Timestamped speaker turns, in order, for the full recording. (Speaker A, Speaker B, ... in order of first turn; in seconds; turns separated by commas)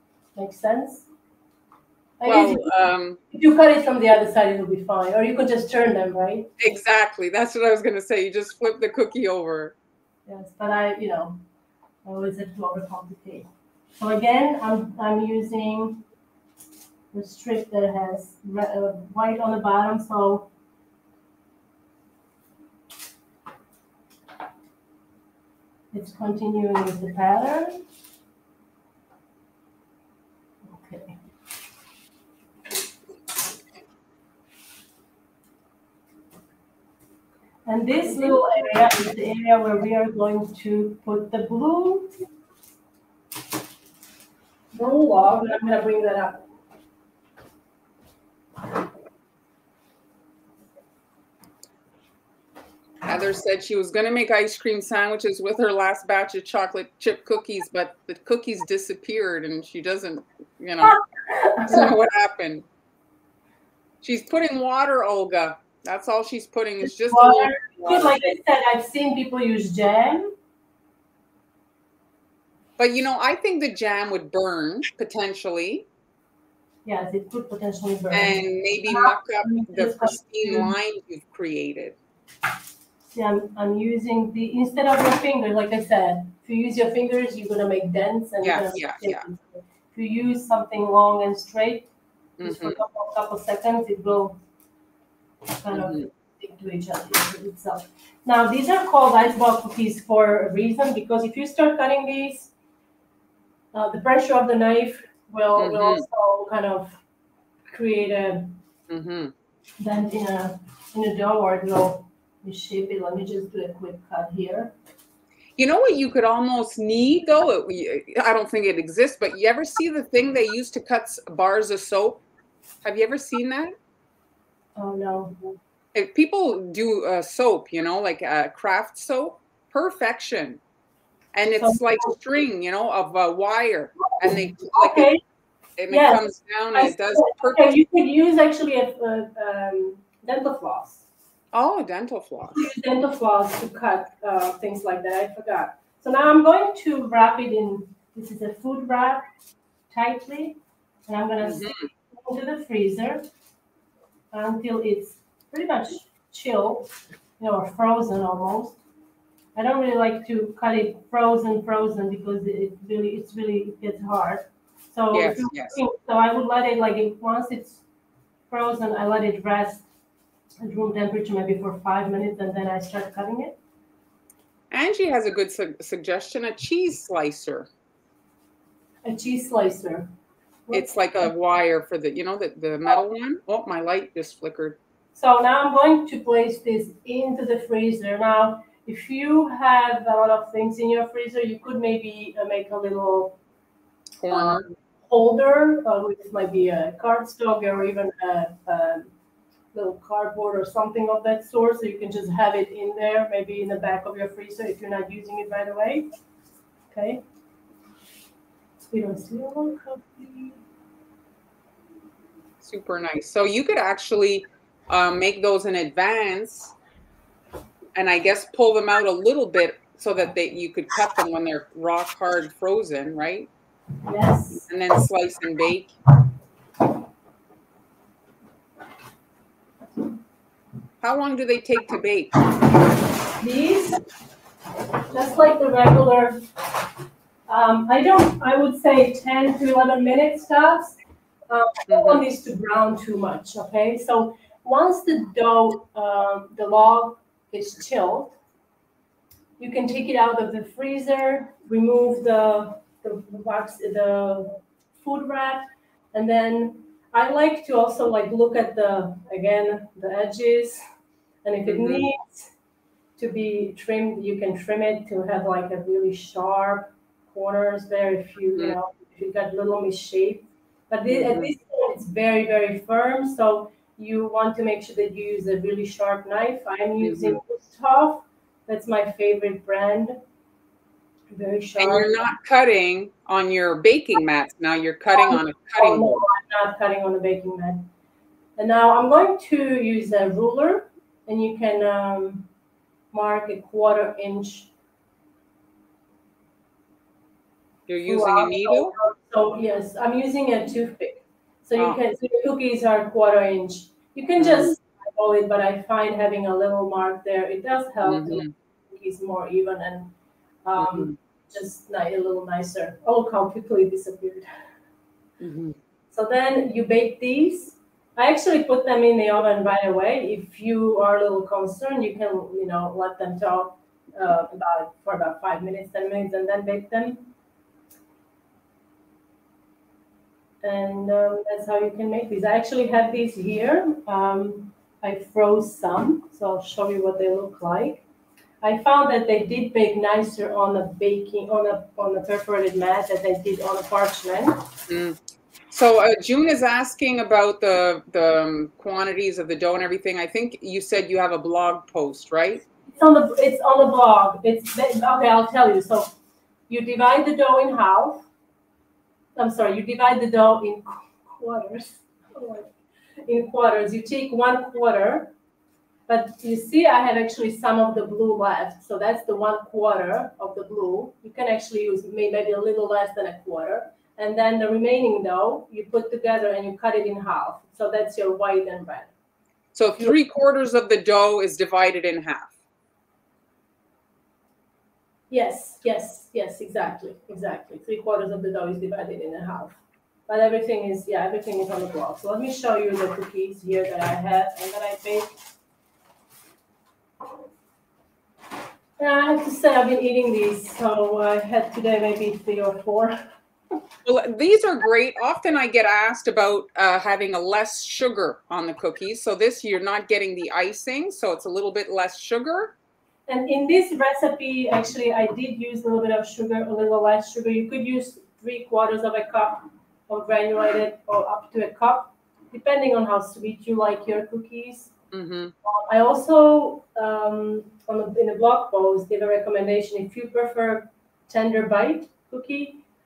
Speaker A: 0.3-1.1, Speaker A: 2.2-2.7, Speaker B: 2.3-3.2, Speaker A: 3.3-6.5, Speaker B: 6.6-9.8, Speaker A: 10.3-11.4, Speaker A: 12.1-16.0, Speaker A: 17.1-20.5, Speaker A: 25.9-27.8, Speaker A: 30.8-31.2, Speaker A: 37.7-42.1, Speaker A: 44.7-46.5, Speaker B: 53.0-61.0, Speaker A: 60.8-61.9, Speaker B: 61.6-62.7, Speaker B: 64.0-68.2, Speaker A: 66.8-70.3, Speaker B: 72.8-75.9, Speaker A: 76.8-80.7, Speaker B: 78.1-82.0, Speaker A: 83.1-91.9, Speaker B: 88.4-89.3, Speaker B: 92.4-92.8, Speaker A: 92.4-94.4, Speaker A: 95.6-102.5, Speaker B: 95.7-96.1, Speaker A: 103.7-107.0, Speaker B: 105.6-106.0, Speaker A: 107.7-108.6, Speaker B: 108.9-109.3, Speaker A: 109.8-114.7, Speaker B: 115.6-122.2, Speaker B: 122.8-123.7, Speaker A: 124.8-125.5, Speaker B: 125.9-130.6, Speaker B: 131.3-135.1, Speaker A: 131.6-132.2, Speaker A: 134.7-135.2, Speaker B: 135.8-137.8, Speaker A: 135.9-136.2, Speaker A: 136.7-141.1, Speaker B: 141.5-142.7, Speaker A: 142.5-149.2, Speaker A: 149.9-153.2, Speaker B: 151.4-151.8, Speaker A: 154.3-158.8, Speaker A: 159.6-167.8, Speaker B: 165.1-165.8, Speaker A: 168.5-169.9, Speaker A: 170.6-173.6, Speaker B: 174.7-177.7, Speaker A: 179.0-180.1, Speaker B: 180.7-184.8, Speaker A: 185.2-193.4, Speaker B: 194.2-194.7, Speaker A: 194.3-199.1, Speaker A: 199.7-206.1, Speaker A: 206.9-207.2, Speaker A: 208.9-210.6, Speaker B: 212.6-216.7, Speaker B: 217.9-223.5, Speaker A: 224.1-224.7, Speaker B: 224.7-225.9, Speaker B: 231.0-232.3, Speaker A: 233.4-234.0, Speaker A: 235.1-236.4, Speaker A: 237.5-241.0, Speaker A: 241.5-248.4, Speaker B: 241.9-242.2, Speaker A: 249.6-260.8, Speaker A: 261.4-262.5, Speaker B: 261.6-262.1, Speaker A: 263.2-280.2, Speaker B: 271.1-271.5, Speaker B: 277.0-277.4, Speaker A: 281.3-282.3, Speaker B: 281.8-286.2, Speaker A: 285.1-287.9, Speaker A: 288.6-292.5, Speaker A: 293.1-294.7, Speaker B: 297.9-298.9, Speaker A: 298.0-310.1, Speaker B: 304.4-304.7, Speaker B: 308.1-308.5, Speaker A: 310.6-314.5, Speaker B: 310.8-311.1, Speaker B: 315.4-315.8, Speaker A: 316.1-327.3, Speaker A: 330.6-338.1, Speaker A: 338.6-344.6, Speaker B: 344.9-345.2, Speaker B: 345.7-352.6, Speaker A: 352.9-356.1, Speaker A: 356.7-358.3, Speaker A: 359.4-362.7, Speaker A: 363.3-365.3, Speaker A: 366.1-379.1, Speaker B: 379.7-382.5, Speaker A: 385.3-395.4, Speaker A: 399.0-403.1, Speaker B: 404.1-412.8, Speaker A: 413.3-424.9, Speaker B: 425.1-425.5, Speaker A: 425.6-432.8